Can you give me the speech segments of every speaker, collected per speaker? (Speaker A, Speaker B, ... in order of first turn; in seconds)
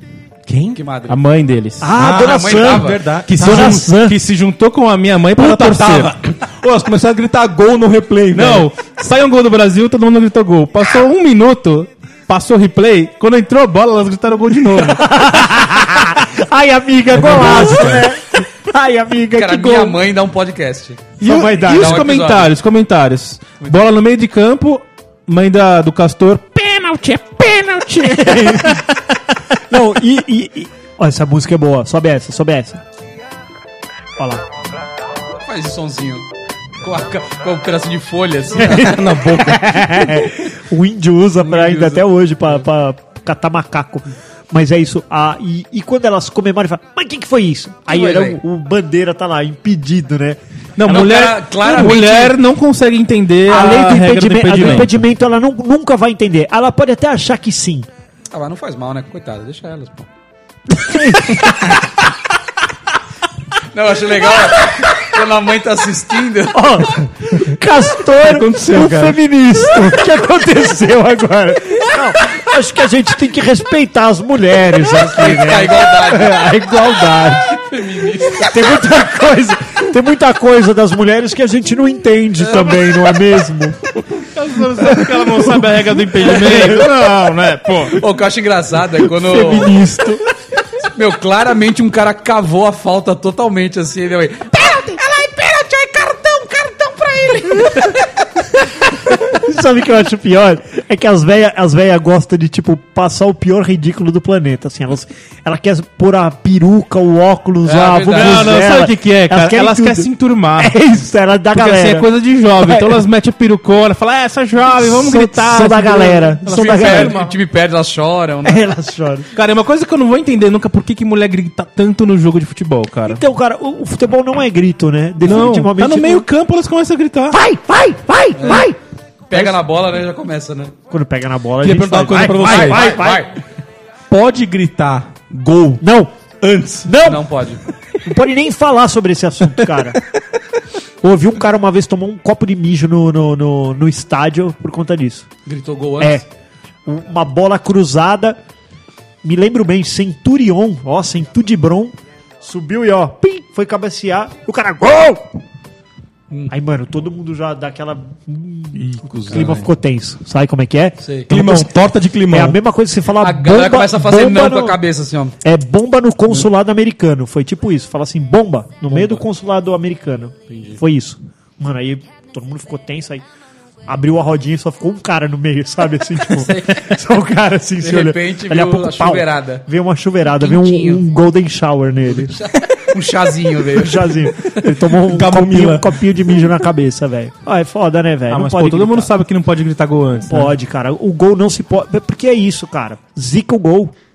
Speaker A: 0.5-1.9, 3.3-6.1, 8.3-15.4, 17.3-17.9, 21.2-28.8, 50.8-55.0, 84.3-88.0, 108.1-110.8, 111.5-117.4, 119.3-123.2, 125.2-127.4, 188.3-190.5
Speaker B: 0.8-1.2, 2.0-3.0, 19.4-22.5, 35.3-36.3, 36.8-39.0, 41.4-42.0, 47.9-48.4, 50.9-52.4, 54.6-54.9, 58.3-60.1, 63.7-67.0, 74.9-76.7, 77.5-78.8, 82.4-83.0, 86.4-86.7, 87.9-89.8, 90.9-98.1, 107.6-108.6, 116.5-118.7, 128.4-128.7, 129.3-130.7, 132.3-133.4, 137.0-137.6, 145.5-146.2, 159.0-159.6, 161.0-161.3, 163.2-165.3, 168.9-169.2, 170.5-170.8, 176.3-177.0, 177.8-179.6, 180.4-181.0, 182.1-184.6
Speaker C: 1.8-4.2, 14.9-20.0, 21.2-22.1, 28.1-28.9, 29.7-32.8, 34.2-34.4, 38.6-50.4, 53.5-57.9, 60.7-61.7, 66.5-77.6, 78.3-83.8, 84.8-85.7, 86.2-86.8, 89.1-90.2, 99.1-113.0, 114.8-117.2, 118.4-119.3, 123.1-126.3, 127.3-128.8, 130.9-133.3, 135.8-136.1, 136.9-137.2, 138.0-140.0, 141.0-145.3, 146.0-146.2, 146.9-148.4, 149.2-155.4, 156.5-161.7, 162.3-164.8, 165.4-173.2, 173.9-182.4, 183.8-189.1, 190.3-193.9
Speaker D: 1.9-3.9, 5.3-8.7, 17.1-18.1, 38.7-40.2, 68.2-69.2, 131.6-133.0, 134.1-135.8, 136.4-136.9, 159.2-159.7, 161.3-162.6, 185.1-186.0